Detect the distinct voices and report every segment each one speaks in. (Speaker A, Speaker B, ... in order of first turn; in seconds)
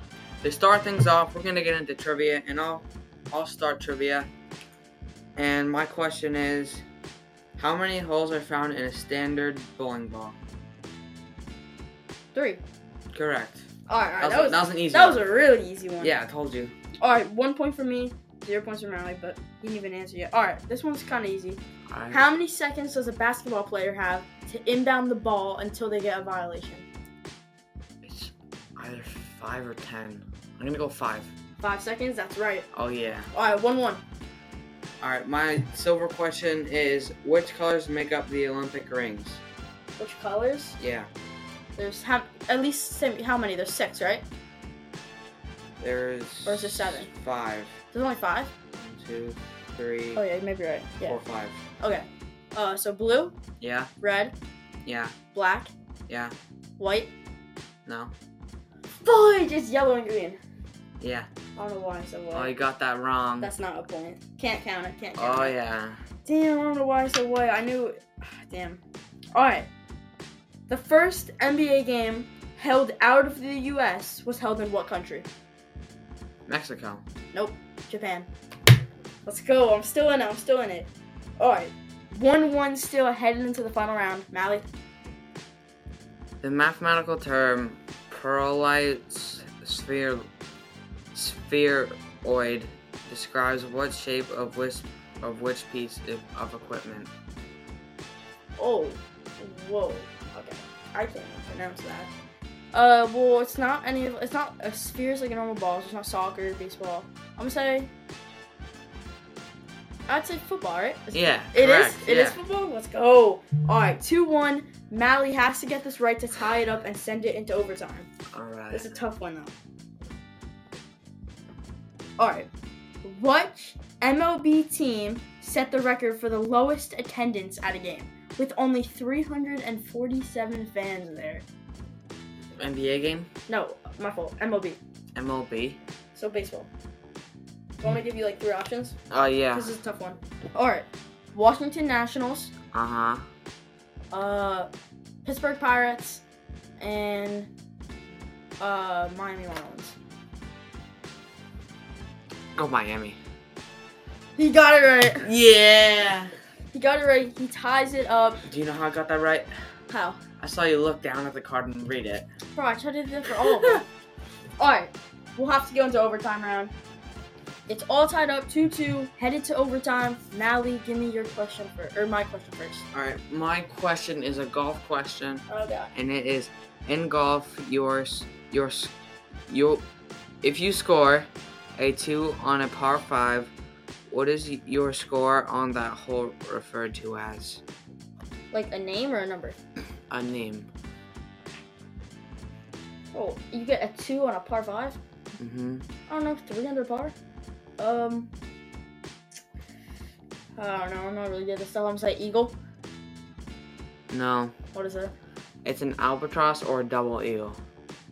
Speaker A: 0.4-4.3, 5.3-6.8, 7.6-10.4, 13.1-13.7, 14.2-15.2, 16.0-16.7, 21.9-22.2, 28.0-31.3, 32.7-33.3, 35.0-39.4, 40.8-41.1, 45.8-47.7, 48.7-50.2, 51.0-51.6, 53.6-53.9, 54.8-55.1, 56.1-56.3, 57.9-58.1, 61.0-61.3, 62.3-63.5, 65.2-66.0, 76.5-77.0, 86.4-90.3, 91.1-97.1, 111.1-112.4, 118.3-118.9, 132.6-133.3, 135.1-135.8, 139.1-139.7, 142.7-143.2, 152.5-153.2, 155.2-156.3, 158.4-159.5, 160.4-162.2, 163.4-163.8, 172.9-175.4, 175.9-178.9, 179.5-179.8, 180.4-183.5, 184.1-187.6, 190.1-190.7, 195.4-195.8, 204.1-204.5, 205.6-207.6
Speaker B: 12.3-12.6, 13.9-16.1, 17.0-26.9, 31.6-32.7, 33.3-34.0, 40.0-40.8, 41.8-44.2, 46.5-47.1, 47.9-48.5, 50.1-51.2, 51.8-53.4, 54.0-54.3, 55.3-55.7, 56.8-57.1, 59.0-60.4, 61.5-62.5, 63.4-65.5, 66.2-68.8, 69.3-69.7, 70.7-75.3, 77.3-78.3, 79.2-84.7, 98.6-102.1, 102.7-107.9, 110.1-118.1, 118.7-119.5, 122.2-122.5, 123.0-131.4, 133.5-134.8, 136.1-136.7, 137.8-139.0, 139.5-142.5, 144.1-144.7, 145.2-146.2, 146.8-147.5, 148.6-149.9, 154.4-155.3, 156.7-158.4, 159.9-160.2, 162.5-163.8, 164.6-166.7, 167.7-172.8, 175.5-175.9, 188.5-189.6, 193.1-195.0, 196.1-197.2, 197.8-198.3, 200.6-202.6, 204.7-205.1